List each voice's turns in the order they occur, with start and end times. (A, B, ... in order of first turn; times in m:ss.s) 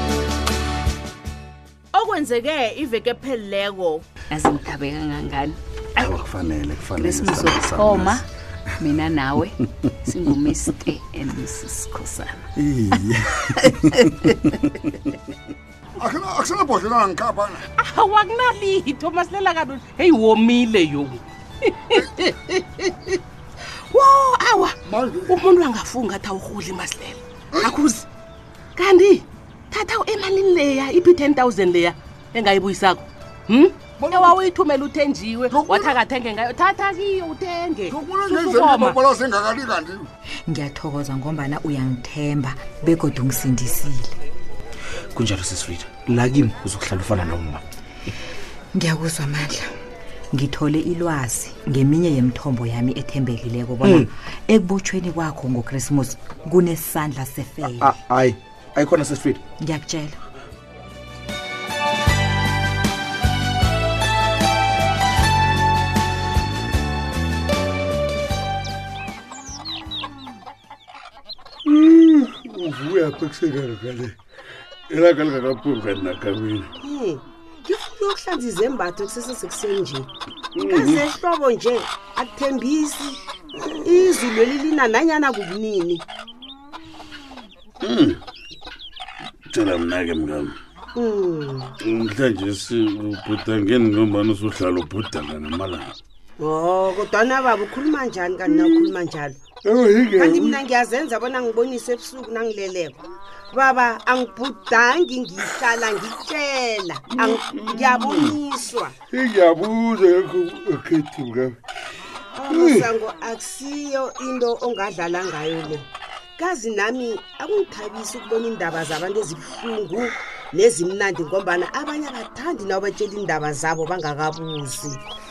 0:01.9-0:04.0 A
0:04.3-0:05.6 B
0:06.0-0:08.2 C
0:06.9-0:08.2 B
0:08.8-0:12.4 B
0:12.6-0:13.2 D
0:16.0-0:17.6 E
0:17.8-0:23.2 F
0:23.9-0:28.0 F
0:24.9-0:25.4 E
0:28.8-0:39.0 F
0:34.0-0:34.4 E
0:35.5-0:36.0 E
0:37.9-0:40.1 E
0:40.4-0:44.1 G
0:45.2-0:47.6 D
0:48.7-0:49.7 G
0:50.3-0:57.9 G
0:53.8-0:54.1 D
0:57.8-0:59.4 D
0:59.6-1:00.2 G
1:11.6-1:14.1 C
1:14.9-1:16.7 C
1:16.8-1:20.1 H
1:20.5-1:21.0 C
1:20.7-1:26.0 H
1:27.8-1:28.2 C
1:29.5-1:30.5 C
1:30.9-1:31.7 H
1:31.8-1:35.9 C
1:36.4-1:39.4 H
1:38.4-1:38.9 C
1:39.6-1:40.6 C
1:40.1-1:43.0 H
1:43.5-1:48.9 H
1:47.1-1:48.4 C
1:49.1-1:51.6 C
1:52.4-1:55.8 H
1:52.5-1:52.9 C
1:56.4-2:05.0 H